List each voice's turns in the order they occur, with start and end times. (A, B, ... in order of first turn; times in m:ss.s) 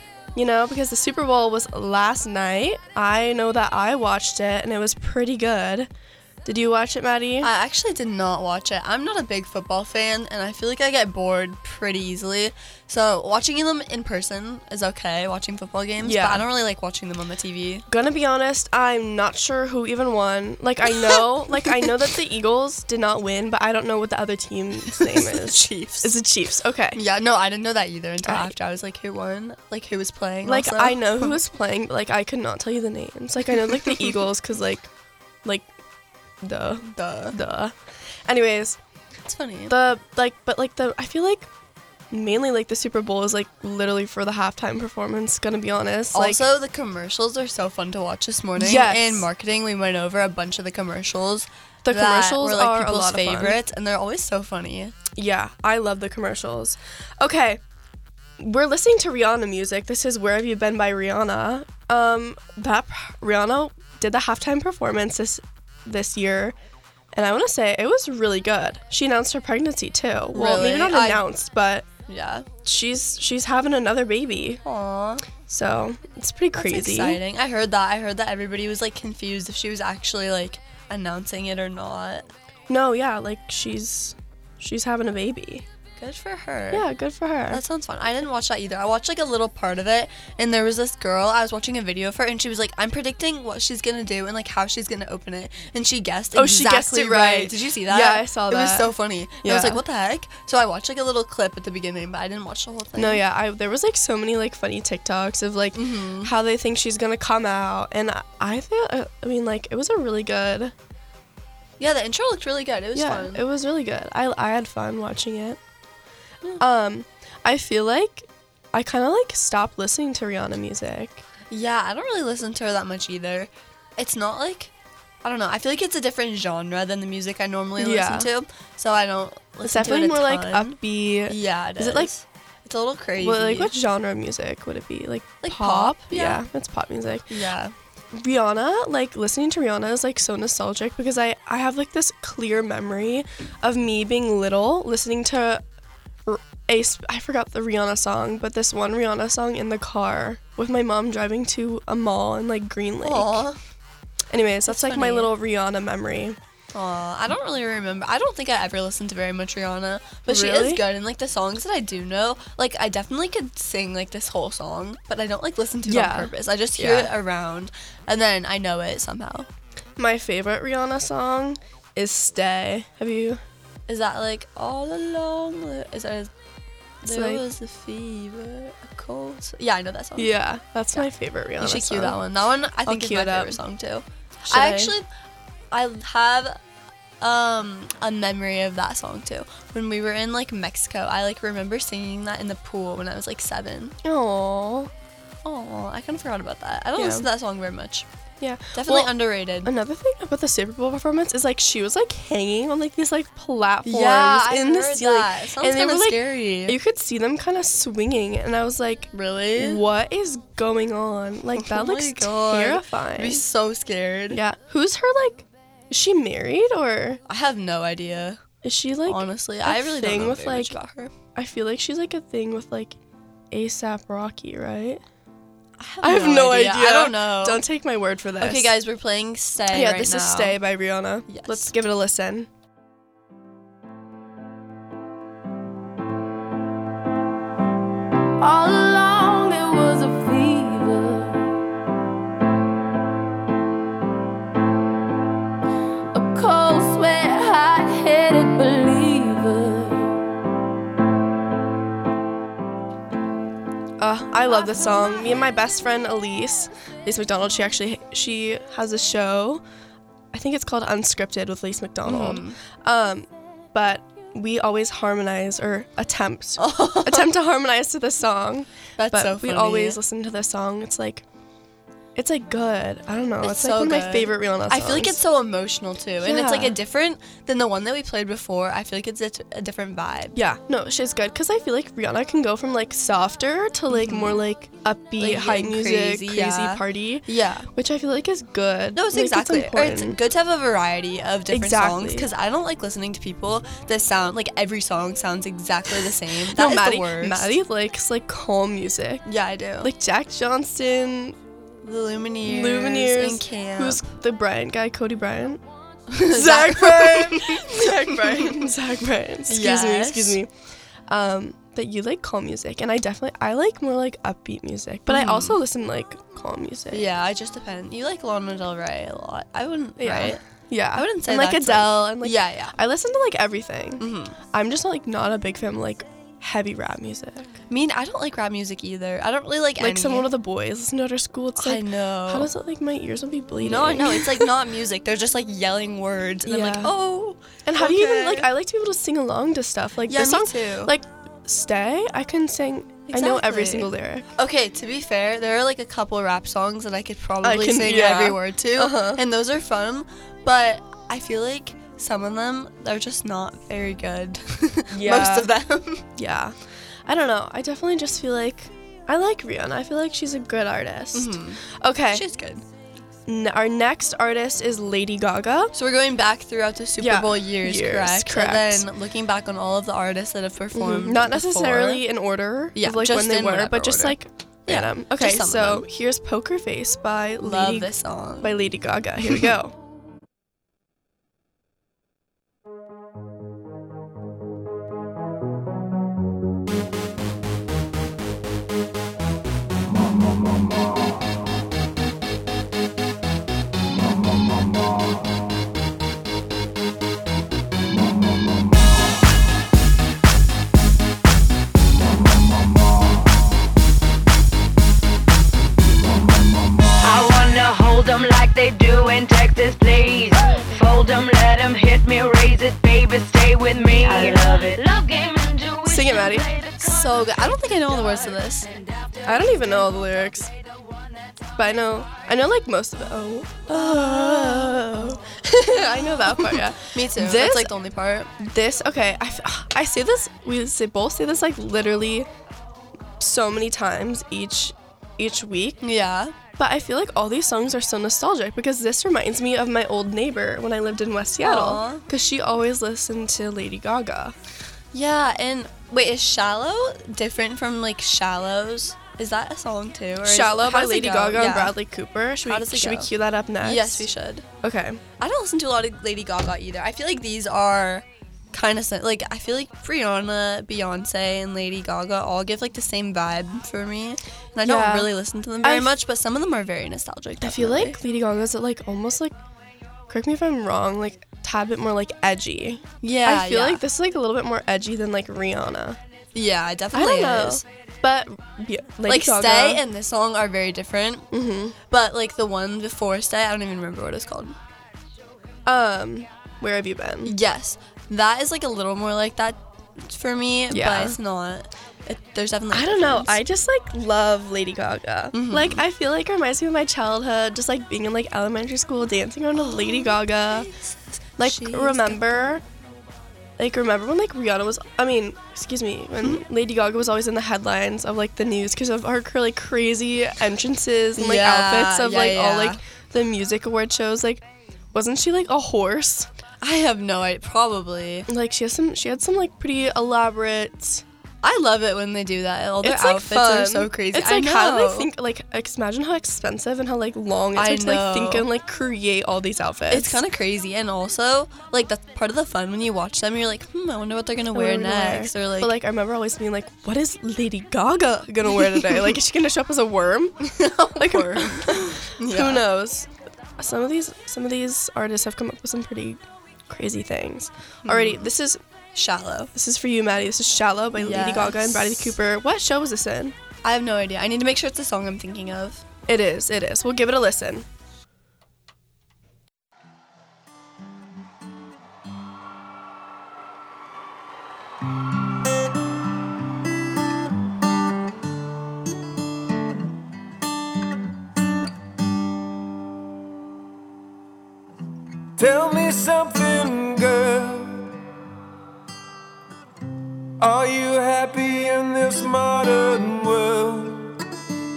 0:00.3-0:05.9 A
0:06.4-0:07.5 A
0:07.4-0:17.8 B
0:16.0-0:16.5 A
0:17.9-0:27.0 A
0:20.9-0:22.0 B
0:24.9-0:26.2 B
0:26.9-0:31.4 B
0:28.2-0:28.5 A
0:30.4-0:34.9 A
0:33.5-0:34.1 B
0:36.4-0:37.7 A
0:36.9-0:37.4 B
0:38.2-0:38.8 A
0:39.2-0:39.7 B
0:39.7-0:41.5 A
0:42.1-0:46.4 A
0:46.1-0:54.9 B
0:48.6-0:49.3 A
0:51.8-0:53.6 A
0:55.2-0:57.6 A
0:58.4-1:06.6 A
1:07.1-1:11.8 A
1:10.3-1:11.2 B
1:12.1-1:12.5 B
1:12.6-1:14.6 A
1:14.6-1:15.2 B
1:15.4-1:17.2 A
1:16.6-1:22.3 B
1:22.7-1:25.6 A
1:26.0-1:26.9 B
1:26.7-1:27.6 A
1:27.5-1:43.2 B
1:36.3-1:38.9 A
1:39.4-1:39.8 A
1:43.0-1:50.7 A
1:45.7-1:46.3 B
1:51.8-1:53.4 B
1:52.9-1:55.6 A
1:56.6-2:01.2 A
2:01.5-2:04.7 B
2:05.2-2:13.7 B
2:07.8-2:08.3 A
2:09.6-2:12.1 A
2:13.2-2:17.3 A
2:15.4-2:16.4 B
2:17.3-2:17.7 B
2:18.1-2:25.6 A
2:26.2-2:33.4 A
2:33.0-2:33.6 B
2:34.3-2:36.4 A
2:34.7-2:35.3 B
2:36.7-2:49.5 B
2:40.2-2:40.8 A
2:45.8-2:47.1 A
2:50.0-2:53.4 A
2:53.9-2:56.3 B
2:57.0-3:00.3 B
2:57.0-2:57.4 A
3:00.2-3:02.2 A
3:01.6-3:05.1 B
3:02.8-3:03.6 A
3:04.4-3:04.9 A
3:05.7-3:06.6 B
3:07.2-3:14.0 B
3:14.0-3:14.9 A
3:15.4-3:18.1 B
3:17.0-3:17.3 A
3:18.4-3:33.4 A
3:18.7-3:19.7 B
3:23.8-3:26.8 B
3:29.1-3:29.8 B
3:31.6-3:34.4 B
3:34.3-3:37.2 A
3:37.3-3:38.4 B
3:38.6-3:40.8 A
3:39.0-3:41.1 B
3:41.3-3:43.0 A
3:43.5-3:45.0 A
3:45.8-3:47.6 B
3:46.0-3:48.7 A
3:48.4-3:50.6 B
3:49.7-3:52.5 A
3:51.3-3:51.7 B
3:58.4-4:01.5 C
4:06.1-4:10.1 C
4:14.0-4:19.6 A
4:20.3-4:31.2 A
4:22.0-4:22.6 B
4:26.6-4:27.3 B
4:29.0-4:30.0 B
4:32.2-4:35.2 A
4:33.4-4:40.4 B
4:36.2-4:36.8 A
4:40.3-4:50.2 A
4:43.9-4:44.4 B
4:45.2-4:47.7 B
4:48.9-4:57.6 B
4:51.5-4:52.3 A
4:56.5-4:59.2 A
4:59.2-4:59.9 B
4:59.8-5:01.4 A
5:01.8-5:04.0 B
5:02.4-5:05.6 A
5:06.1-5:08.7 B
5:06.3-5:10.5 A
5:09.5-5:10.4 B
5:11.1-5:17.1 A
5:15.1-5:15.6 B
5:16.9-5:20.4 B
5:20.0-5:27.5 A
5:20.9-5:22.7 B
5:24.0-5:24.4 B
5:27.7-5:30.3 B
5:29.8-5:34.5 A
5:31.6-5:32.5 B
5:33.6-5:38.5 B
5:36.4-5:36.9 A
5:37.6-5:44.3 A
5:40.1-5:40.9 B
5:43.1-5:56.0 B
5:47.4-5:49.2 A
5:54.9-5:55.5 A
5:56.2-6:02.2 A
6:01.1-6:02.7 B
6:03.3-6:05.7 A
6:05.7-6:12.0 B
6:07.0-6:08.8 A
6:10.7-6:19.7 A
6:12.7-6:15.8 B
6:17.4-6:18.5 B
6:47.0-6:56.9 D
6:54.0-6:54.8 C
6:55.9-6:56.5 A
6:56.8-6:58.7 B
6:59.2-7:00.5 A
7:01.6-7:07.7 A
7:03.7-7:04.9 B
7:06.3-7:08.3 B
7:08.4-7:12.3 A
7:13.2-7:15.8 A
7:15.8-7:16.4 B
7:16.6-7:24.3 A
7:21.4-7:22.0 B
7:24.9-7:31.7 B
7:30.2-7:34.1 A
7:32.4-7:34.4 B
7:34.6-7:35.0 A
7:35.2-7:48.0 B
7:44.6-7:45.9 A
7:47.4-7:49.3 A
7:50.1-7:56.0 A
7:53.0-7:53.8 B
7:56.3-7:57.6 B
7:56.9-7:59.8 A
7:59.0-8:01.3 B
8:01.3-8:01.8 A
8:01.8-8:04.6 B
8:05.6-8:07.4 A
8:07.2-8:13.4 B
8:10.7-8:11.2 A
8:12.7-8:20.7 A
8:15.3-8:15.8 B
8:19.5-8:22.6 B
8:21.4-8:22.6 A
8:23.6-8:36.3 A
8:31.2-8:32.8 B
8:36.6-8:38.3 B
8:38.3-8:41.0 A
8:41.4-8:45.1 B
8:42.8-8:50.2 A
8:47.5-8:48.5 B
8:49.9-8:55.8 B
8:54.5-9:03.1 A
8:58.5-8:59.1 B
9:00.4-9:02.6 B
9:03.6-9:08.6 A
9:07.8-9:08.3 B
9:08.9-9:09.5 B
9:09.5-9:13.3 A
9:11.0-9:12.1 B
9:13.6-9:15.8 B
9:16.1-9:17.6 A
9:35.4-9:37.9 E
9:40.4-9:44.1 E